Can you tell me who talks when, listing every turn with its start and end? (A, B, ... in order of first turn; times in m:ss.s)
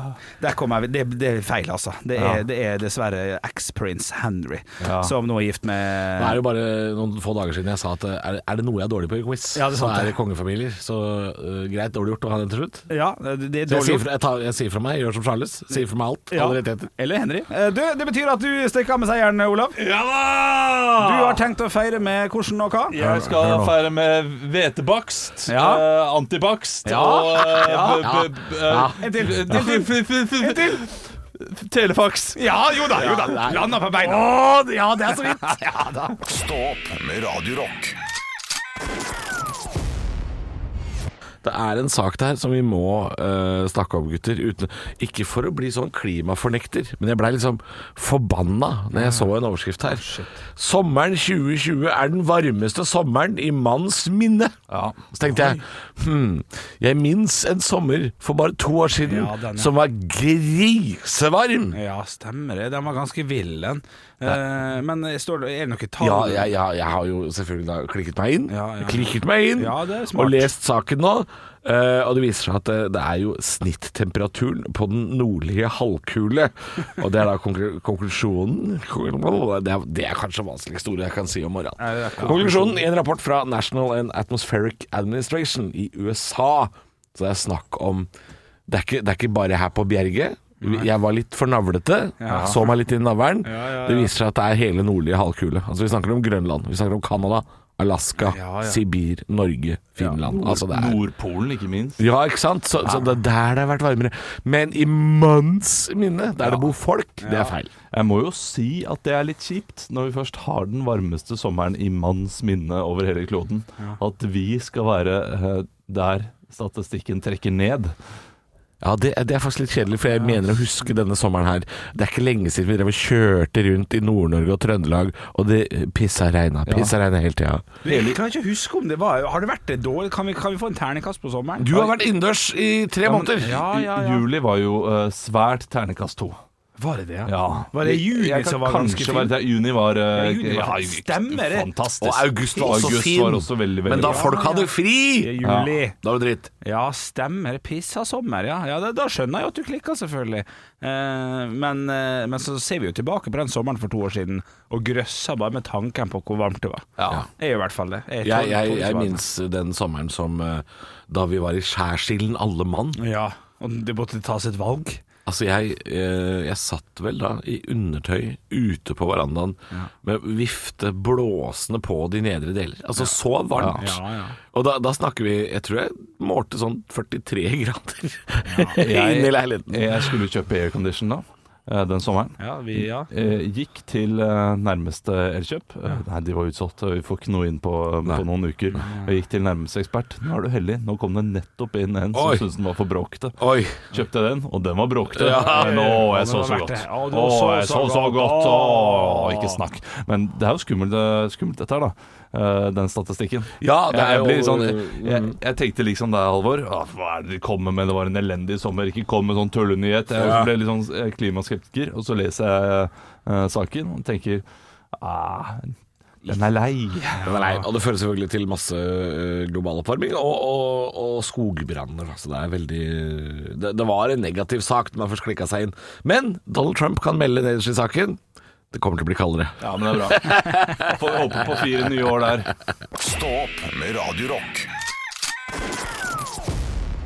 0:00.4-0:06.4 A
0:04.8-0:05.1 B
0:06.2-0:12.9 C
0:09.5-0:10.2 A
0:12.9-0:14.0 A
0:13.7-0:16.9 C
0:16.3-0:19.8 A
0:19.8-0:21.4 B
0:21.0-0:23.0 A
0:22.9-0:32.4 B
0:23.0-0:23.8 C
0:25.5-0:25.8 A
0:26.8-0:28.1 A
0:27.8-0:29.0 C
0:29.0-0:30.8 A
0:32.4-0:34.4 A
0:33.0-0:35.5 C
0:35.0-0:36.2 A
0:36.2-0:38.0 D
0:41.4-0:54.6 C
0:48.9-0:49.3 A
0:49.9-0:50.4 A
0:54.7-0:55.0 B
0:55.1-1:01.8 C
0:55.3-0:55.6 A
0:59.0-0:59.7 A
1:01.7-1:06.5 A
1:06.0-1:28.1 C
1:08.5-1:10.5 A
1:21.8-1:22.8 A
1:28.7-1:41.0 C
1:30.6-1:30.9 A
1:32.2-1:32.7 A
1:33.4-1:34.1 A
1:38.2-1:38.8 A
1:40.2-1:42.0 B
1:42.0-1:47.7 C
1:47.2-1:47.5 A
1:47.9-1:58.0 B
1:58.8-2:07.7 C
2:06.7-2:07.0 B
2:07.8-2:12.0 A
2:07.9-2:08.2 B
2:11.6-2:13.6 C
2:13.0-2:16.4 B
2:13.4-2:14.3 A
2:16.8-2:19.3 A
2:17.3-2:24.3 B
2:20.1-2:21.7 A
2:22.0-2:25.4 C
2:22.6-2:23.0 A
2:23.9-2:26.0 A
2:25.4-2:25.7 B
2:26.0-2:26.5 C
2:26.6-2:36.9 A
2:37.0-2:37.2 B
2:37.4-2:39.2 A
2:38.2-2:43.0 C
2:43.0-2:45.0 A
2:45.3-2:54.0 C
2:53.7-2:54.4 A
2:54.5-3:00.1 C
2:58.4-2:58.8 A
2:58.8-3:13.4 B
3:02.4-3:03.1 A
3:12.1-3:12.5 C
3:13.4-3:13.8 C
3:13.9-3:34.4 B
3:15.1-3:15.8 C
3:15.2-3:19.6 A
3:23.6-3:25.4 C
3:30.2-3:30.5 C
3:35.0-3:35.7 B
3:36.3-3:37.3 B
3:37.2-3:48.2 C
3:37.3-3:37.6 A
3:48.7-3:51.6 C
3:49.6-3:52.5 B
3:53.0-3:54.7 D